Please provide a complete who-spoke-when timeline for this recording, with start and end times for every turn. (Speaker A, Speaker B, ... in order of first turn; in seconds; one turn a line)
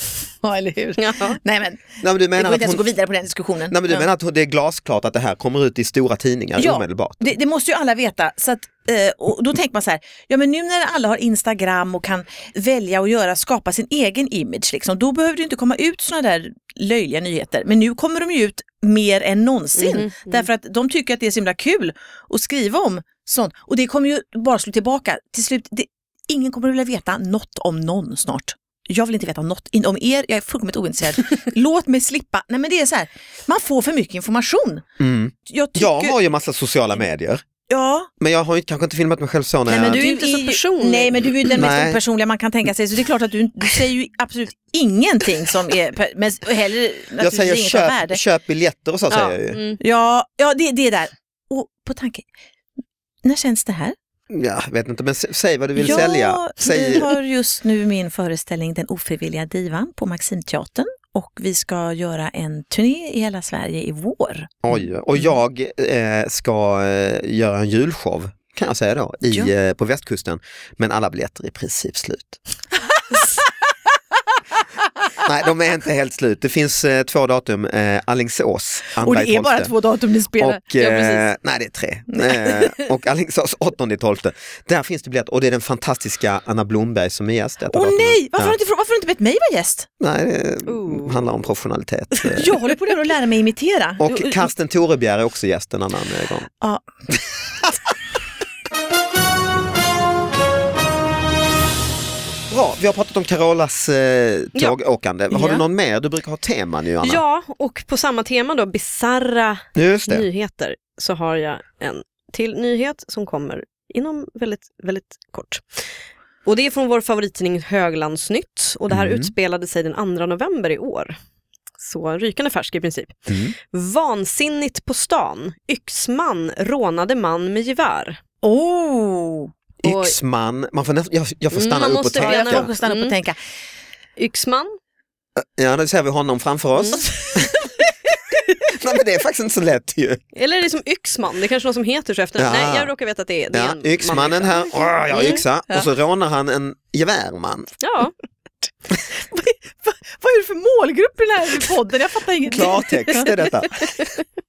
Speaker A: 0.4-4.1
Speaker B: 1.0-1.4
Speaker C: 2.0-2.8
Speaker C: 3.7-7.3
Speaker A: 6.6-34.9
Speaker B: 19.8-20.5
Speaker C: 35.0-37.5
Speaker A: 35.5-36.2
Speaker A: 37.7-38.1
Speaker C: 38.2-40.0
Speaker B: 39.7-41.4
Speaker A: 39.7-48.2
Speaker C: 41.5-42.0
Speaker C: 47.2-49.6
Speaker B: 49.1-49.8
Speaker A: 49.8-52.3
Speaker A: 53.2-54.0
Speaker C: 54.3-57.1
Speaker A: 55.8-64.8
Speaker C: 64.6-72.4
Speaker A: 72.9-73.5
Speaker C: 75.2-79.7
Speaker A: 79.0-81.2
Speaker C: 80.4-88.6
Speaker A: 82.1-82.4
Speaker A: 87.7-89.9
Speaker C: 90.0-92.6
Speaker B: 90.7-91.2
Speaker A: 92.3-94.5
Speaker C: 94.0-96.5
Speaker A: 96.6-96.9
Speaker C: 102.5-107.2
Speaker A: 105.3-105.6
Speaker B: 107.0-115.8
Speaker C: 109.8-110.3
Speaker B: 116.5-121.2
Speaker C: 118.9-119.3
Speaker B: 121.8-128.2
Speaker C: 123.3-123.5
Speaker A: 128.4-129.5
Speaker C: 129.8-132.7
Speaker B: 129.8-130.2
Speaker B: 131.5-133.1
Speaker A: 132.2-133.4
Speaker B: 134.2-134.8
Speaker C: 135.4-137.6
Speaker C: 138.7-140.2
Speaker B: 140.3-145.4
Speaker C: 142.4-142.9
Speaker C: 143.5-147.7
Speaker B: 147.8-148.1
Speaker A: 148.9-153.3
Speaker C: 152.5-153.9